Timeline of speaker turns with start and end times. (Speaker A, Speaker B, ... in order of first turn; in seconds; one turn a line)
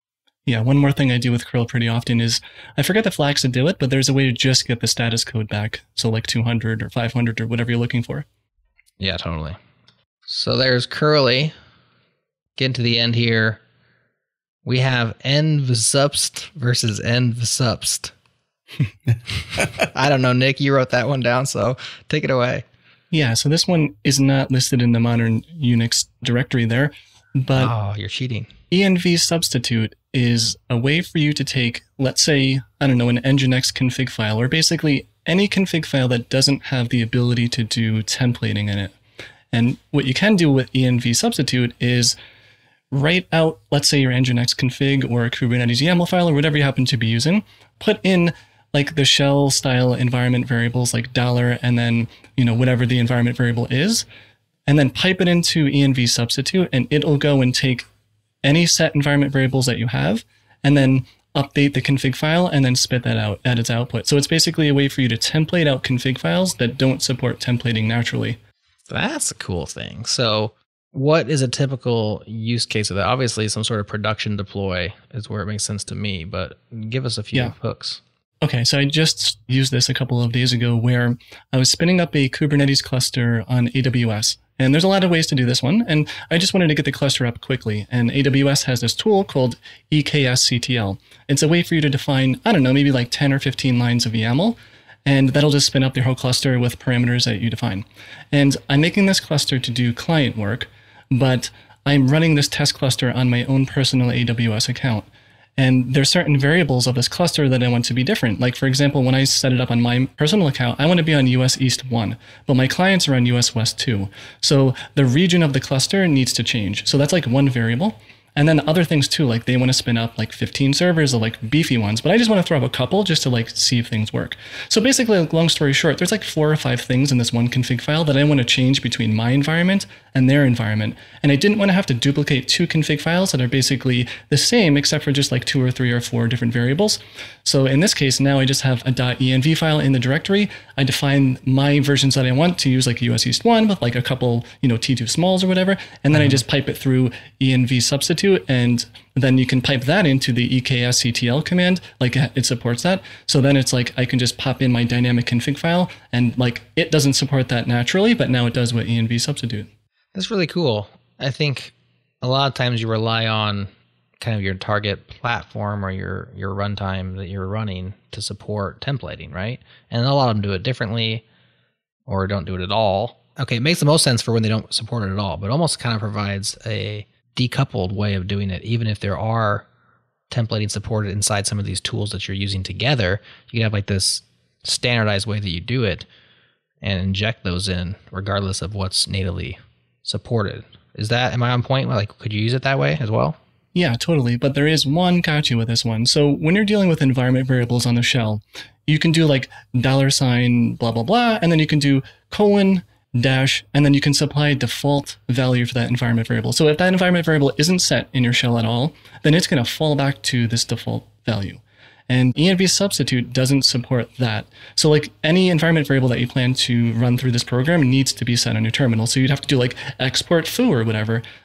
Speaker A: 0.5-8.2
Speaker B: 9.0-9.6
Speaker B: 10.3-11.5
Speaker B: 12.6-13.6
Speaker B: 14.7-18.1
Speaker B: 19.3-22.7
Speaker A: 23.1-27.7
Speaker B: 27.5-28.5
Speaker A: 28.7-38.9
Speaker A: 39.5-42.2
Speaker A: 42.9-54.0
Speaker A: 54.7-57.9
Speaker A: 58.4-68.4
Speaker B: 68.9-78.0
Speaker A: 78.4-105.1
Speaker A: 105.6-159.7
Speaker B: 146.2-146.4
Speaker B: 160.1-171.2
Speaker B: 172.1-179.7
Speaker B: 180.3-186.1
Speaker B: 186.8-193.4
Speaker A: 193.8-221.2